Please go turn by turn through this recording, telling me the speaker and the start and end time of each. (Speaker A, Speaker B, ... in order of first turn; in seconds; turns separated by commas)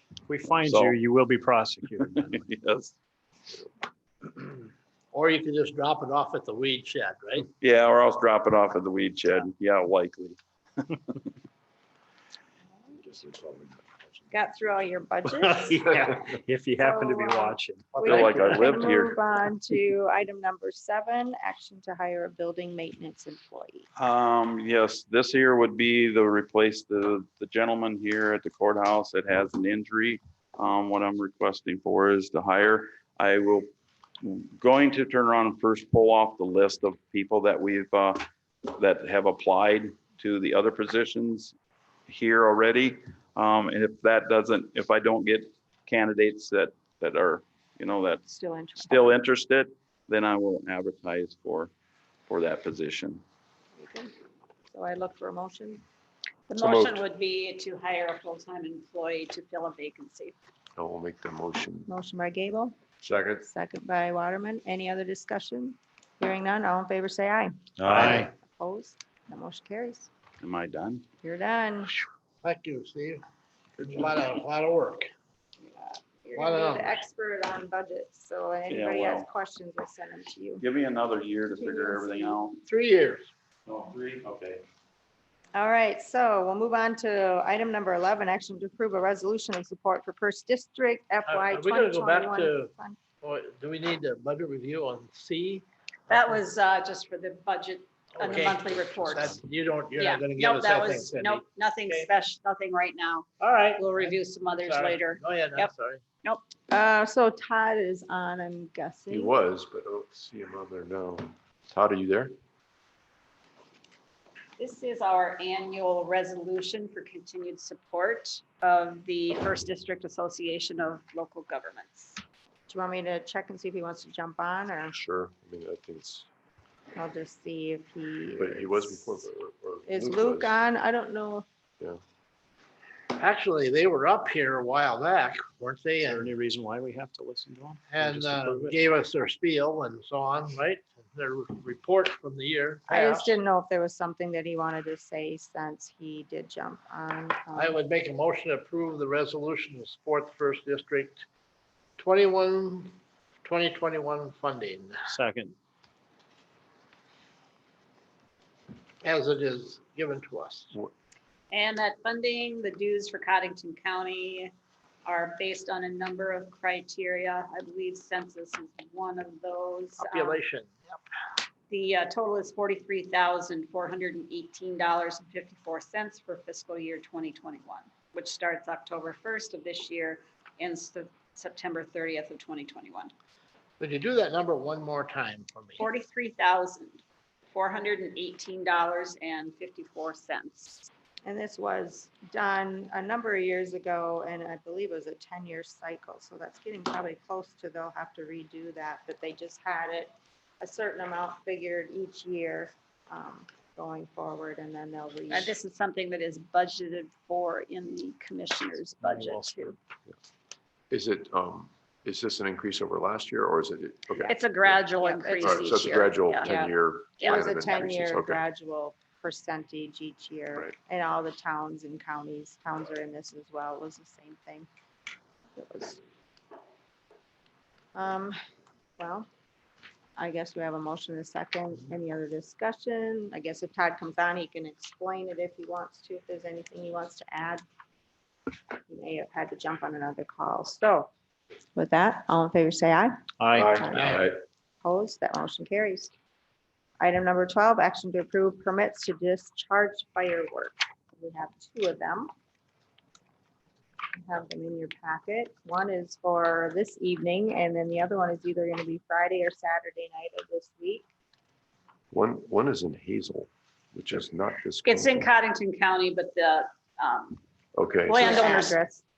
Speaker A: 0.3-2.5, Speaker B: 0.6-1.0, Speaker B: 1.9-3.0, Speaker C: 5.1-7.5, Speaker B: 7.6-10.4, Speaker B: 10.9-11.2, Speaker D: 13.0-14.3, Speaker E: 14.3-15.9, Speaker A: 15.3-18.7, Speaker E: 16.8-23.9, Speaker B: 18.0-19.2, Speaker B: 24.0-33.7, Speaker B: 34.2-41.5, Speaker B: 42.1-51.7, Speaker E: 48.4-49.2, Speaker B: 52.3-53.2, Speaker E: 53.8-54.1, Speaker E: 54.7-55.8, Speaker F: 56.5-60.3, Speaker D: 56.6-57.0, Speaker D: 60.8-61.9, Speaker E: 61.9-62.8, Speaker D: 63.0-63.4, Speaker E: 63.4-70.1, Speaker A: 67.8-68.3, Speaker B: 70.4-71.0, Speaker E: 71.2-71.9, Speaker C: 72.4-73.2, Speaker C: 73.8-75.1, Speaker E: 75.6-80.6, Speaker C: 76.3-77.0, Speaker B: 78.7-79.3, Speaker B: 80.6-82.6, Speaker E: 81.5-82.4, Speaker C: 82.6-83.3, Speaker B: 83.7-84.6, Speaker E: 85.5-93.0, Speaker C: 91.2-96.2, Speaker F: 96.1-99.4, Speaker C: 98.1-102.1, Speaker F: 100.0-105.7, Speaker C: 103.4-106.0, Speaker E: 106.7-109.3, Speaker D: 109.1-112.3, Speaker F: 114.6-122.2, Speaker E: 122.7-124.9, Speaker D: 124.9-126.3, Speaker E: 127.0-129.2, Speaker D: 128.4-130.6, Speaker E: 129.8-131.4, Speaker C: 133.2-136.3, Speaker A: 136.0-138.8, Speaker C: 137.9-143.3, Speaker E: 142.9-147.8, Speaker C: 147.5-151.2, Speaker C: 152.0-155.1, Speaker A: 155.1-155.5, Speaker C: 159.0-160.7, Speaker F: 161.5-164.5, Speaker F: 165.0-170.4, Speaker C: 170.0-171.0, Speaker F: 171.7-183.1, Speaker C: 183.8-185.8, Speaker F: 185.8-187.0, Speaker F: 187.5-190.8, Speaker E: 191.2-205.5, Speaker F: 205.3-209.8, Speaker A: 209.0-209.6, Speaker D: 210.9-214.8, Speaker F: 214.2-217.4, Speaker E: 215.0-215.9, Speaker D: 215.4-218.4, Speaker E: 217.2-224.7, Speaker E: 225.6-226.0, Speaker E: 227.9-228.3, Speaker E: 229.0-229.2, Speaker E: 230.2-237.6, Speaker E: 238.9-241.1, Speaker E: 241.7-244.3, Speaker A: 243.4-244.0, Speaker D: 243.5-244.3, Speaker E: 244.8-246.1, Speaker E: 247.0-252.3, Speaker E: 254.2-261.1, Speaker D: 262.1-265.3, Speaker F: 264.9-267.4, Speaker D: 267.8-268.3, Speaker F: 268.1-268.8, Speaker E: 268.1-269.0